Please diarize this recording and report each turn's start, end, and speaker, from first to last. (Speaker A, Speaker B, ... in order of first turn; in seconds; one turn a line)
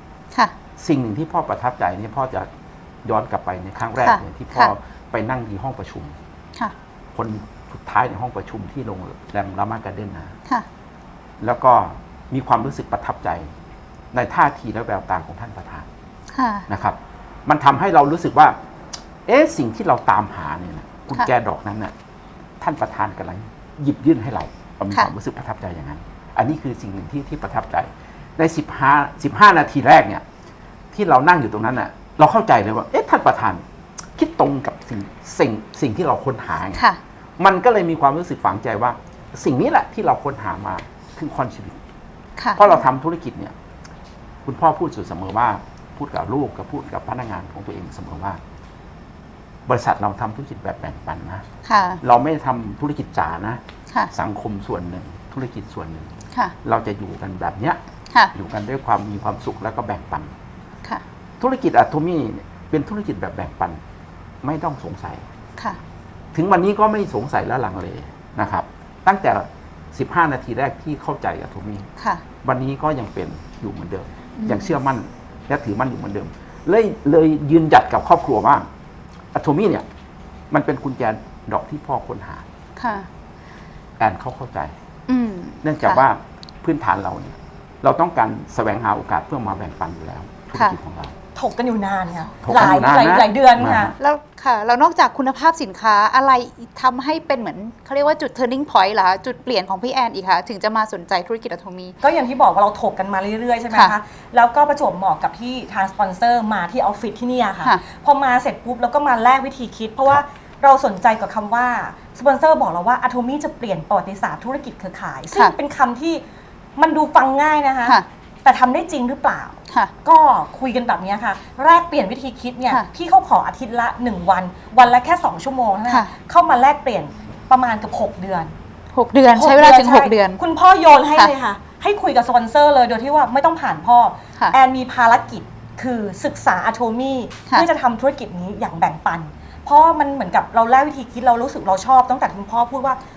Speaker A: 0.8-2.5
Speaker A: 3.0-6.2
Speaker B: 4.0-4.7
Speaker A: 7.1-10.3
Speaker A: 11.4-13.5
Speaker A: 14.1-15.9
Speaker B: 16.3-16.7
Speaker A: 16.7-18.6
Speaker A: 19.3-21.9
Speaker A: 22.6-30.2
Speaker A: 30.9-33.6
Speaker A: 34.2-36.8
Speaker A: 37.4-41.8
Speaker B: 42.4-42.7
Speaker A: 42.6-43.5
Speaker A: 44.5-48.4
Speaker A: 49.7-51.5
Speaker B: 51.6-52.0
Speaker A: 52.0-57.8
Speaker A: 58.3-60.3
Speaker A: 61.4-63.8
Speaker A: 64.4-65.2
Speaker A: 66.3-71.9
Speaker B: 72.0-72.2
Speaker A: 72.4-78.7
Speaker B: 74.4-74.7
Speaker A: 79.3-79.8
Speaker A: 80.5-82.5
Speaker B: 82.8-83.1
Speaker A: 84.0-84.7
Speaker B: 85.1-86.0
Speaker A: 85.6-91.1
Speaker C: 91.3-94.0
Speaker A: 92.4-93.9
Speaker B: 94.0-102.0
Speaker C: 102.0-116.2
Speaker C: 116.8-128.5
Speaker B: 128.9-130.4
Speaker C: 129.3-143.0